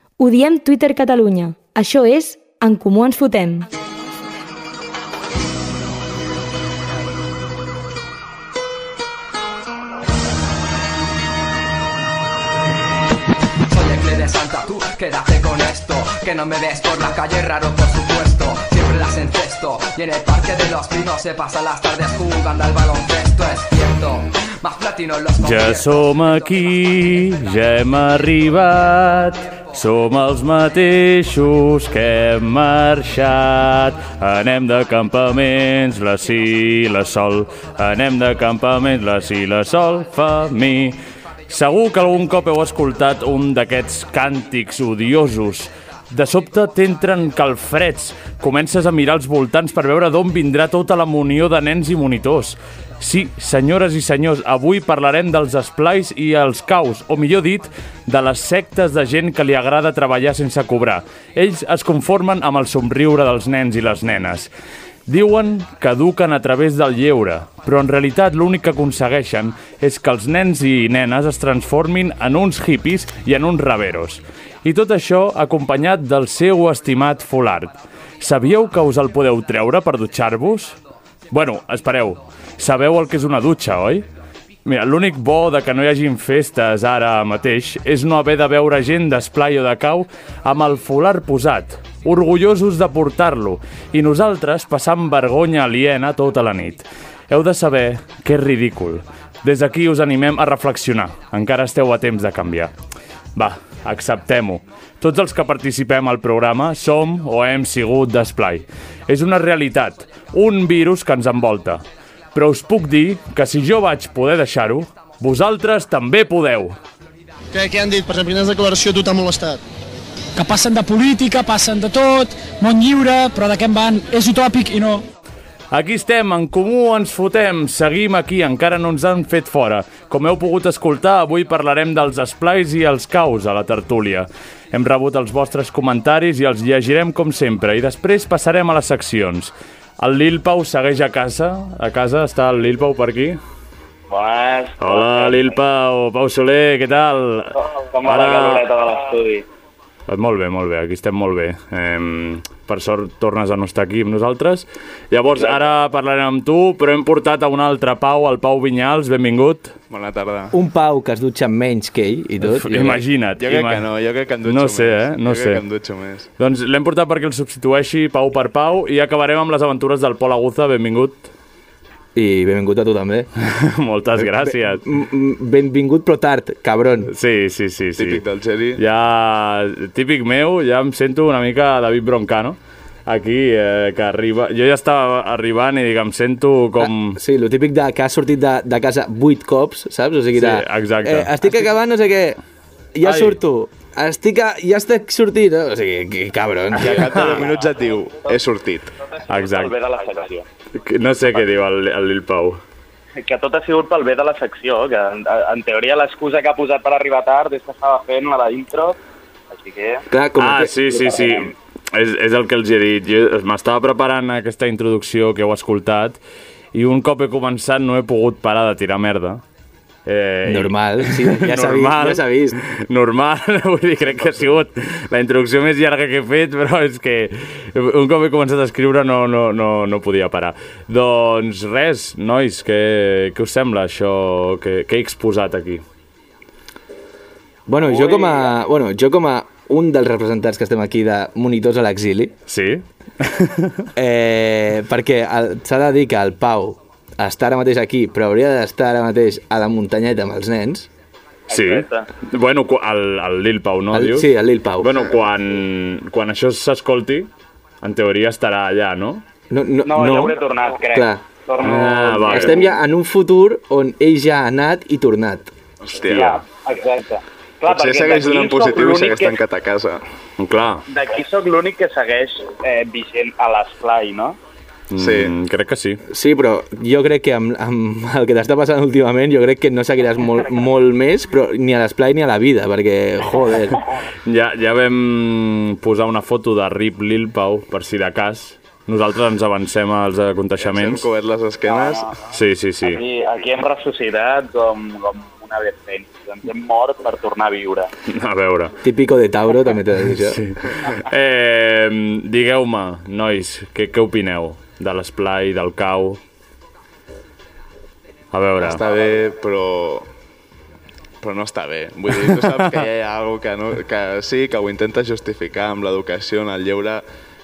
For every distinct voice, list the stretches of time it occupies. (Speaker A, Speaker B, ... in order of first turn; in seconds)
Speaker A: 0.2-3.7
Speaker B: 13.7-26.1
Speaker C: 25.4-41.0, 41.5-64.5, 65.1-80.8, 81.3-84.1, 84.7-102.7, 103.3-111.8, 112.3-116.8, 125.7-143.4, 144.8-148.7, 150.1-159.7, 162.4-163.9, 164.4-165.6, 166.4-171.3, 173.4-174.8, 177.1-178.2, 178.8-187.2, 190.3-191.3, 193.0-193.4, 199.3-199.7, 200.8-202.6, 210.4-216.2, 216.7-219.4, 220.1-235.8, 242.5-243.9, 251.5-257.3, 257.8-259.2, 261.6-262.6, 266.1-266.4, 270.4-270.9, 274.9-276.0, 284.3-291.1, 292.3-293.0, 298.1-298.8, 300.2-306.2, 308.3-308.8, 312.3-312.8
Speaker D: 117.5-119.6
Speaker E: 120.4-125.1
Speaker F: 144.1-145.5, 147.6-149.4, 199.2-200.5, 203.2-209.0, 209.5-210.1, 211.1-211.5, 237.9-238.5, 251.5-252.1, 259.8-262.7, 266.1-269.4, 270.9-274.4, 291.6-292.1, 292.8-297.9
Speaker G: 159.9-160.6, 163.4-166.3, 178.0-178.8, 196.8-198.9, 265.8-266.4, 267.7-270.0, 275.0-275.3, 290.6-292.2, 308.6-310.1, 311.2-317.0
Speaker H: 160.5-163.0, 172.2-173.3, 174.4-177.1, 186.8-192.4, 192.9-197.5, 210.1-210.8, 220.4-222.6, 237.7-242.4, 244.0-250.9, 253.9-255.1, 259.5-265.5, 276.1-283.8, 298.8-300.4